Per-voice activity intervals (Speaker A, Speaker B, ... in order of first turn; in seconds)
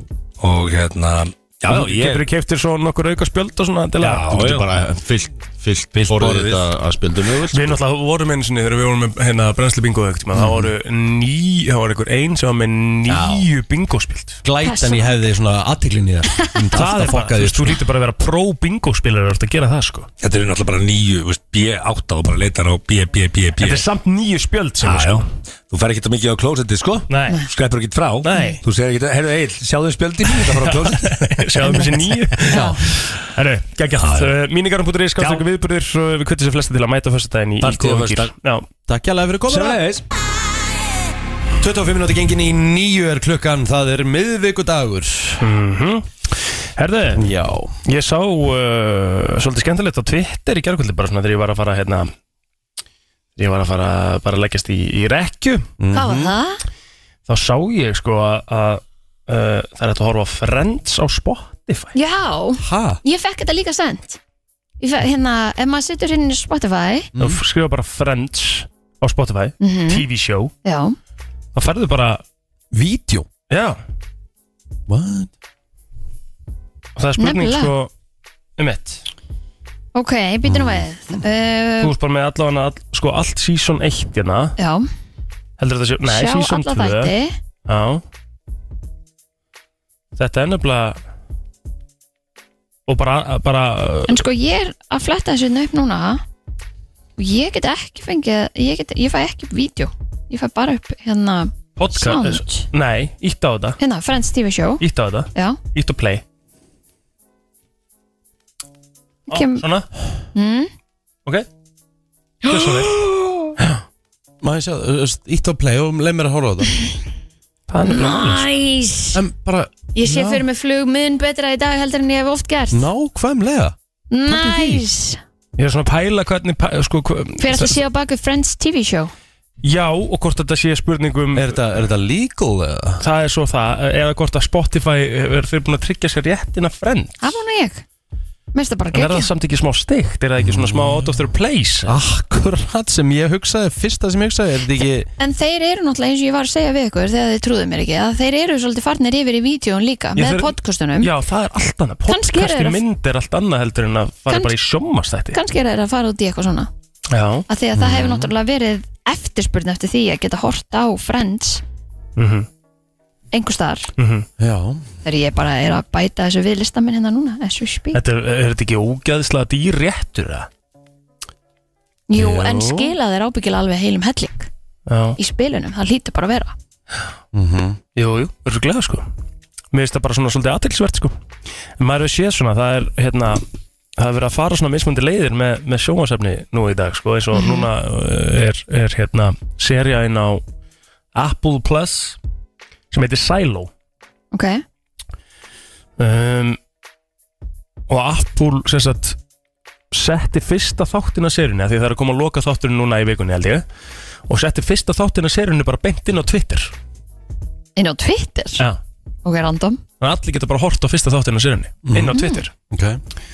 Speaker A: 0.4-2.2, 4.0-4.7, 6.0-6.7, 20.2-23.8, 24.8-31.9, 34.0-34.3, 35.2-35.4, 37.6-38.3, 39.5-40.0
Speaker B: 1.7-4.3, 7.5-14.4, 16.7-20.1, 23.6-25.2, 27.1-27.4, 28.2-28.6, 30.4-38.6, 45.4-47.3, 47.8-52.1, 53.4-55.7, 57.3-61.9, 67.2-70.5, 71.5-72.2, 73.5-73.8, 77.0-77.9, 78.6-79.0, 81.8-84.5, 85.6-87.1, 87.7-88.0, 90.2-91.0, 92.9-94.2, 101.8-103.8, 104.8-106.2, 109.3-109.9, 112.4-113.0, 117.7-118.4, 125.6-127.8, 129.6-131.6, 133.0-137.3, 138.9-142.0, 150.2-155.4, 157.1-157.4, 162.2-162.5, 164.0-164.3, 167.9-170.5, 174.9-175.2, 177.9-179.1, 179.7-181.1, 181.8-183.4, 184.0-190.4, 191.1-192.2, 192.9-193.7, 196.0-196.6, 197.9-199.2, 199.9-203.6, 204.3-206.7, 210.0-212.5
Speaker C: 4.3-7.7
Speaker D: 13.1-13.4, 14.4-17.8, 32.5-32.8, 38.9-39.8, 41.6-45.4, 47.1-47.7, 55.8-56.3, 62.6-63.0, 67.1-67.4, 72.7-73.3, 74.9-75.3, 80.4-81.2, 114.4-116.7, 119.1-120.4, 122.7-123.7, 124.2-124.8, 131.3-133.0, 140.4-141.0, 141.8-145.1, 157.7-158.3, 164.4-164.8, 172.2-172.8, 177.3-177.8, 211.8-212.2, 212.7-213.0
Speaker E: 14.6-15.1, 16.3-16.6, 32.5-32.8, 55.9-56.6, 61.9-64.2, 64.8-67.1, 69.6-70.0, 70.6-71.0, 77.2-77.7, 79.9-81.9, 84.6-84.9, 86.0-87.3, 94.1-96.2, 97.2-102.7, 103.8-104.8, 105.3-105.6, 109.3-109.7, 110.3-110.7, 117.8-119.2, 119.9-122.9, 124.1-125.2, 127.4-129.1, 137.2-137.8, 138.5-139.3, 145.2-151.1, 152.1-152.8, 155.3-156.7, 157.5-161.6, 163.3-163.9, 165.0-168.0, 172.1-174.5, 175.2-176.5, 187.3-187.7, 194.3-194.6, 207.8-208.6, 209.2-209.8, 212.1-212.4